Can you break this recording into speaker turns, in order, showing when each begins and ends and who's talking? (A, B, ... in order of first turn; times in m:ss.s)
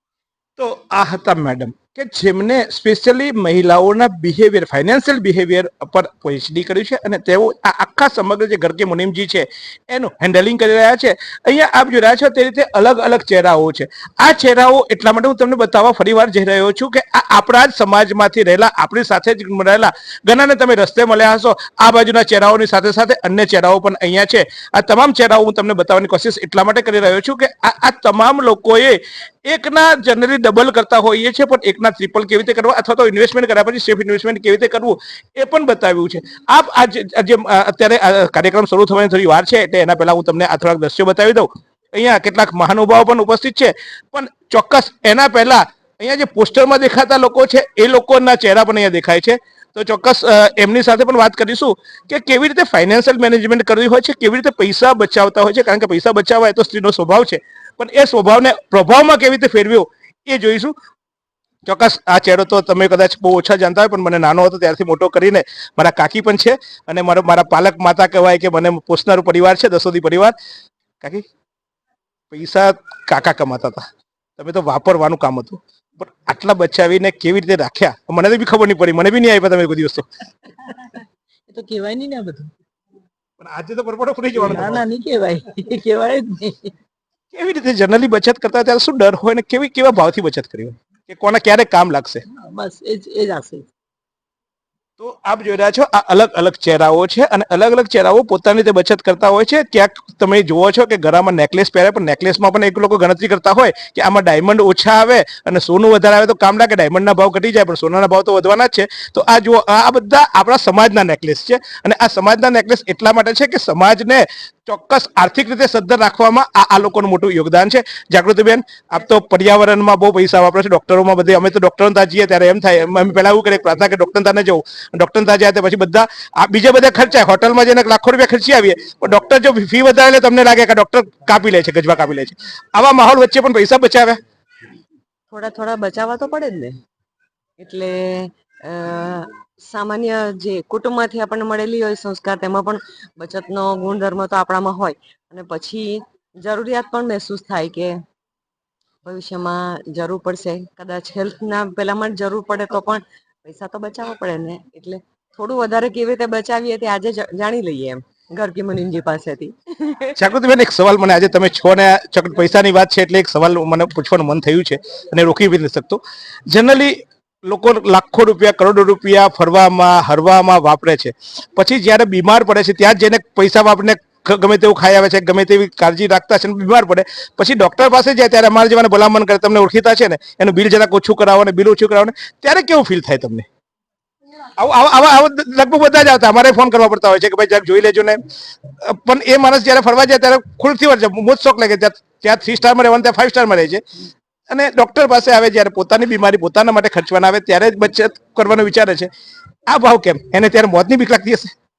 0:00.6-1:00.7 A
1:01.7-1:10.4 A
1:12.3-1:13.8 A
1:14.4-1:20.1 A
1:21.5-1:22.5 B
1:23.4-1:24.8 A
1:24.4-1:26.7 B
1:27.3-1:32.2 A
1:32.4-1:33.7 B
1:35.0-2:14.2 A
2:15.3-2:16.8 C
2:17.6-2:28.0 C
2:29.0-2:40.2 C
2:40.2-3:03.5 A
3:04.6-3:08.2 A
3:08.9-3:13.8 A
3:14.5-3:19.1 A
3:19.7-3:21.5 A